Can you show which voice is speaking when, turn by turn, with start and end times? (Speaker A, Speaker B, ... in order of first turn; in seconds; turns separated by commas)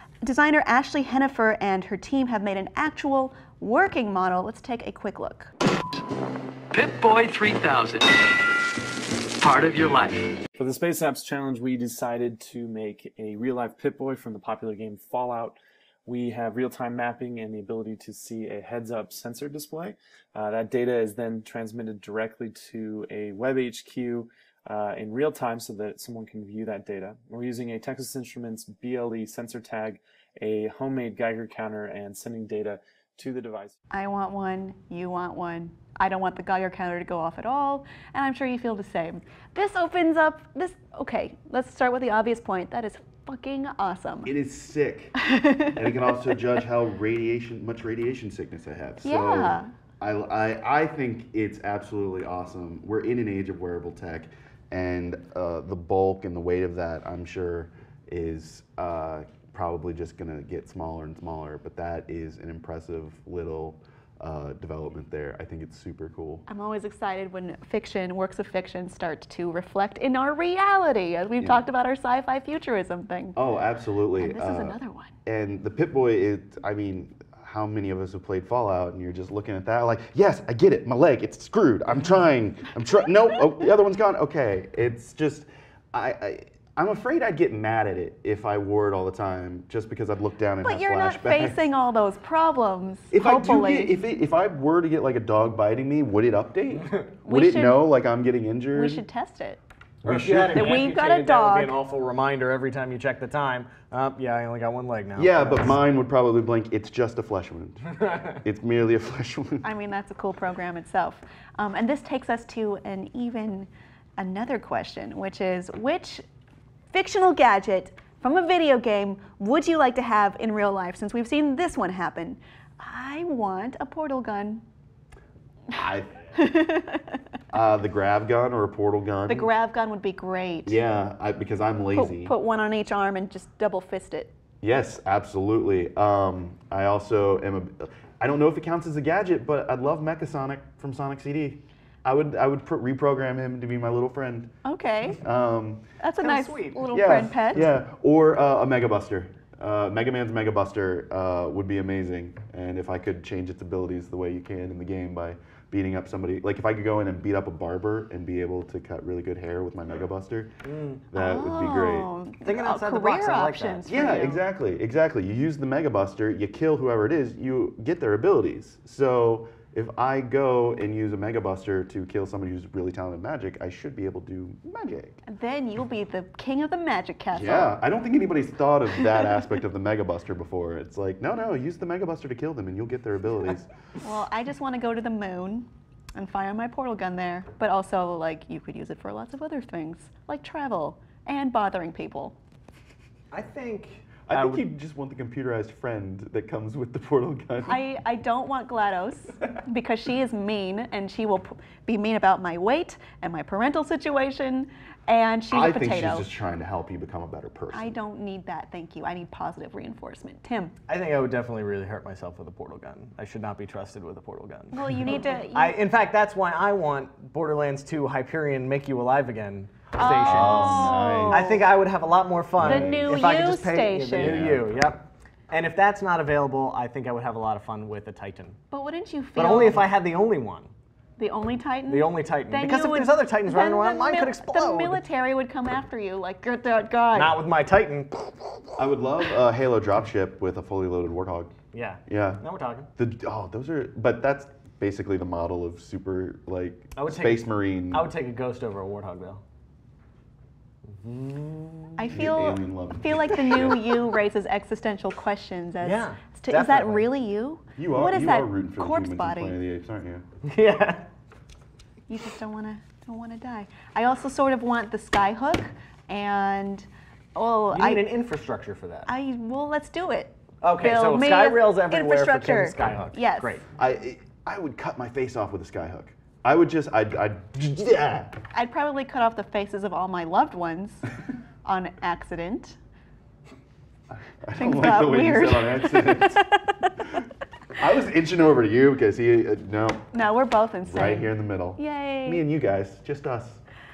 Speaker A: 0.2-5.5, Speaker B: 6.7-8.1, Speaker B: 9.4-10.3, Speaker C: 10.6-33.7, Speaker A: 33.9-44.3, Speaker D: 44.3-45.1, Speaker A: 45.2-46.2, Speaker D: 45.7-66.4, Speaker A: 49.0-49.7, Speaker A: 66.5-73.3, Speaker D: 73.3-91.6, Speaker A: 74.2-75.1, Speaker A: 90.6-94.0, Speaker D: 93.1-99.0, Speaker A: 97.2-97.8, Speaker A: 98.7-99.6, Speaker D: 100.0-100.8, Speaker E: 100.0-105.8, Speaker A: 100.5-101.8, Speaker D: 105.2-109.7, Speaker A: 109.6-116.2, Speaker A: 116.9-124.6, Speaker D: 125.7-126.4, Speaker A: 126.3-127.2, Speaker D: 127.5-129.5, Speaker A: 129.3-130.8, Speaker D: 130.7-132.3, Speaker A: 131.9-134.3, Speaker D: 134.6-144.5, Speaker A: 144.7-145.2, Speaker D: 145.2-145.9, Speaker A: 146.0-147.7, Speaker E: 146.2-146.9, Speaker D: 146.9-160.5, Speaker E: 160.7-161.0, Speaker D: 161.1-162.1, Speaker A: 161.2-164.4, Speaker E: 162.4-163.9, Speaker D: 163.9-175.2, Speaker A: 175.2-177.8, Speaker D: 177.3-183.7, Speaker A: 179.0-179.3, Speaker A: 184.0-192.4, Speaker E: 193.3-194.7, Speaker D: 194.2-197.8, Speaker A: 197.6-206.3, Speaker D: 205.5-207.9, Speaker A: 207.7-210.8, Speaker E: 210.9-228.6, Speaker A: 214.7-215.8, Speaker A: 219.9-221.7, Speaker D: 220.2-221.6, Speaker D: 222.6-223.2, Speaker A: 222.6-224.4, Speaker D: 224.2-224.7, Speaker A: 228.7-229.9, Speaker E: 229.4-230.7, Speaker A: 231.2-237.4, Speaker E: 231.9-235.0, Speaker E: 237.1-238.7, Speaker D: 238.8-241.5, Speaker E: 241.7-242.9, Speaker D: 242.1-242.4, Speaker D: 243.0-248.1, Speaker E: 247.0-249.4, Speaker E: 250.9-252.1, Speaker A: 252.0-259.6, Speaker D: 252.1-253.9, Speaker E: 255.8-257.1, Speaker D: 257.8-260.2, Speaker E: 260.4-261.1, Speaker A: 262.1-268.1, Speaker E: 267.7-269.1, Speaker A: 269.1-273.6, Speaker E: 270.6-273.7, Speaker D: 273.8-278.4, Speaker A: 278.5-281.1, Speaker A: 281.6-282.8, Speaker D: 284.3-286.4, Speaker A: 284.6-286.9, Speaker D: 287.8-290.1, Speaker A: 290.1-292.4, Speaker D: 290.9-293.6